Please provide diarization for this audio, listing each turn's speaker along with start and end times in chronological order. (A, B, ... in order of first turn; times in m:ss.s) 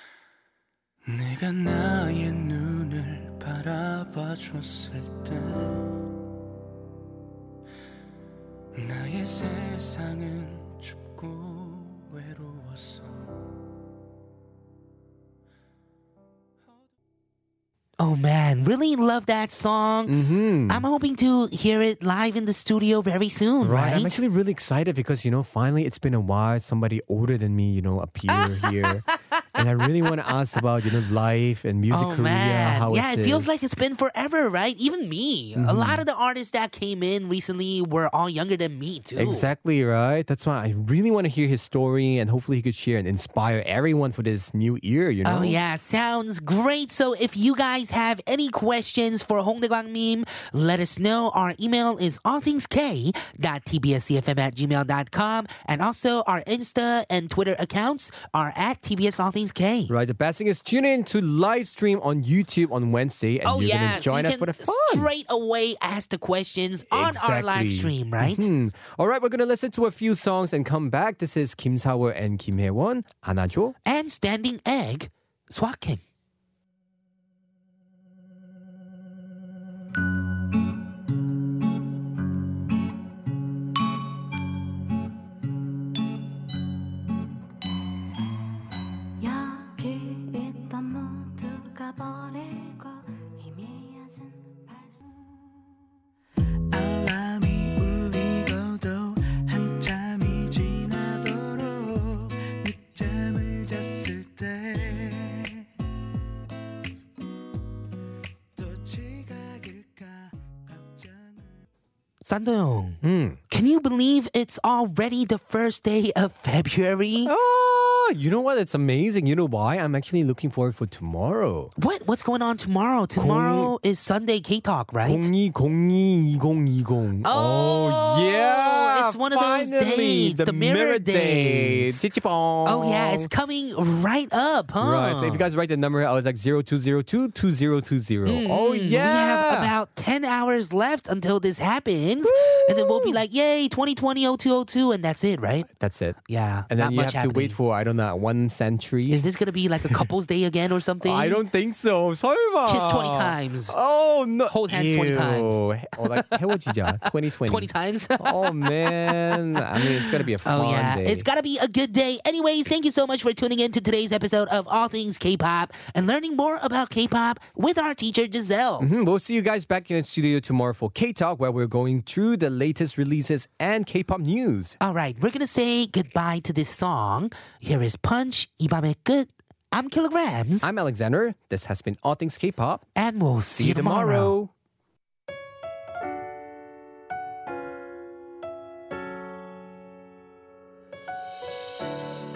0:18.0-0:24.2 A
0:20.1-0:20.8 B
0:23.6-0:33.5 B
0:28.3-0:29.6 A
0:31.9-0:39.5 A
0:35.6-0:36.0 B
0:39.2-0:45.6 B
0:45.2-0:59.9 A
0:59.9-1:05.1 B
1:03.4-1:08.5 A
1:06.9-1:13.7 B
1:13.8-1:16.0 A
1:29.2-1:35.0 C
1:36.8-1:42.2 D
1:43.2-1:44.4 D
1:49.1-1:49.5 D
1:52.2-1:57.3 A
1:53.0-1:53.4 B
1:57.2-2:01.7 B
2:01.8-2:05.3 A
2:03.1-2:03.7 B
2:05.0-2:13.3 B
2:07.2-2:12.0 A
2:12.6-2:15.5 A
2:14.8-2:19.7 B
2:18.2-2:25.7 A
2:22.2-2:23.2 B
2:25.7-2:26.2 B
2:26.3-2:27.6 A
2:26.7-2:29.2 B
2:29.1-2:31.4 A
2:31.0-2:41.3 B
2:32.6-2:33.8 A
2:34.5-2:48.9 A
2:48.8-2:54.8 B
2:54.8-3:00.7 A
3:00.6-3:02.8 B
3:03.0-3:04.3 A
3:03.5-3:04.5 B